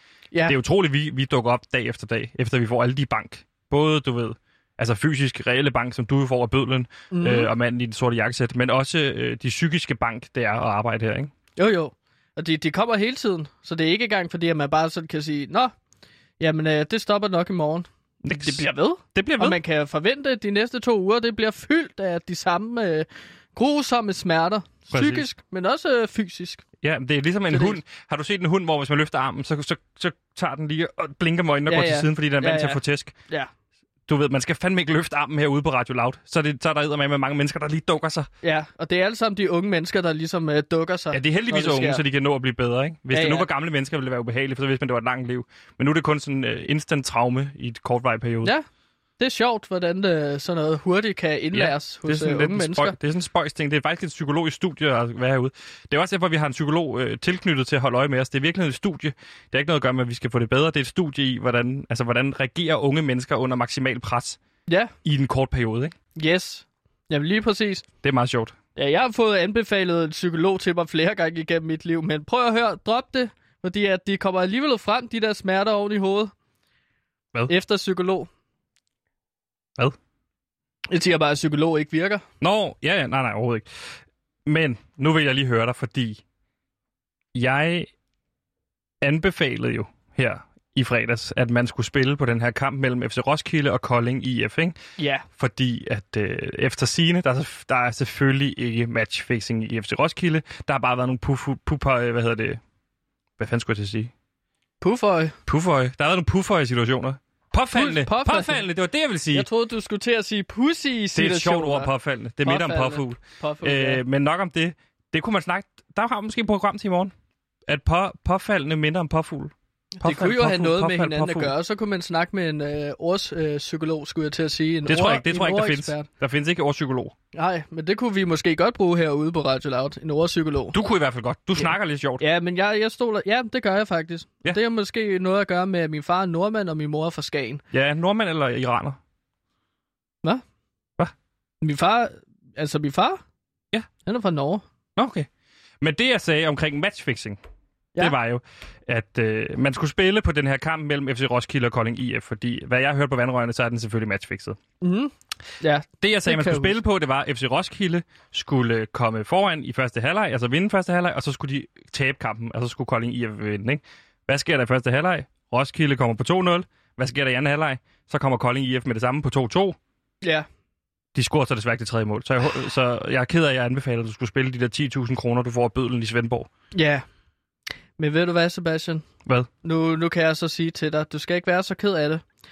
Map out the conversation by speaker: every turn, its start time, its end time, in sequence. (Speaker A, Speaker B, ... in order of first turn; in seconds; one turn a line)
Speaker A: 0.3-0.6
Speaker B: 0.5-11.3
Speaker A: 7.1-7.5
Speaker A: 11.6-15.7
Speaker A: 16.4-26.6
Speaker B: 18.2-19.6
Speaker B: 24.9-25.2
Speaker B: 26.8-33.1
Speaker A: 27.5-27.8
Speaker A: 31.7-33.5
Speaker B: 34.1-38.3
Speaker A: 38.4-42.0
Speaker B: 41.1-48.5
Speaker A: 43.1-43.5
Speaker A: 49.2-52.9
Speaker B: 51.5-64.4
Speaker A: 64.7-64.9
Speaker B: 65.0-65.9
Speaker A: 66.2-67.8
Speaker B: 68.0-68.5
Speaker A: 68.8-76.3
Speaker A: 77.5-78.3
Speaker A: 80.9-82.2
Speaker B: 82.4-83.7
Speaker B: 84.5-86.2
Speaker B: 87.3-87.9
Speaker B: 89.0-94.8
Speaker A: 95.0-95.2
Speaker B: 95.4-102.6
Speaker B: 103.4-104.1
Speaker A: 104.8-105.3
Speaker B: 105.5-109.5
Speaker A: 107.7-108.6
Speaker A: 109.3-111.9
Speaker B: 111.1-117.1
Speaker A: 112.4-114.0
Speaker B: 117.7-121.5
Speaker A: 120.0-126.1
Speaker B: 124.9-127.1
Speaker A: 127.3-130.8
Speaker B: 130.7-132.2
Speaker A: 131.6-137.6
Speaker B: 137.7-139.0
Speaker A: 141.6-143.2
Speaker A: 144.1-144.6
Speaker B: 145.0-145.3
Speaker B: 145.8-147.4
Speaker B: 148.0-154.6
Speaker A: 154.8-156.8
Speaker B: 156.0-169.8
Speaker B: 171.1-176.5
Speaker A: 176.7-177.1
Speaker A: 178.0-179.1
Speaker A: 179.6-182.2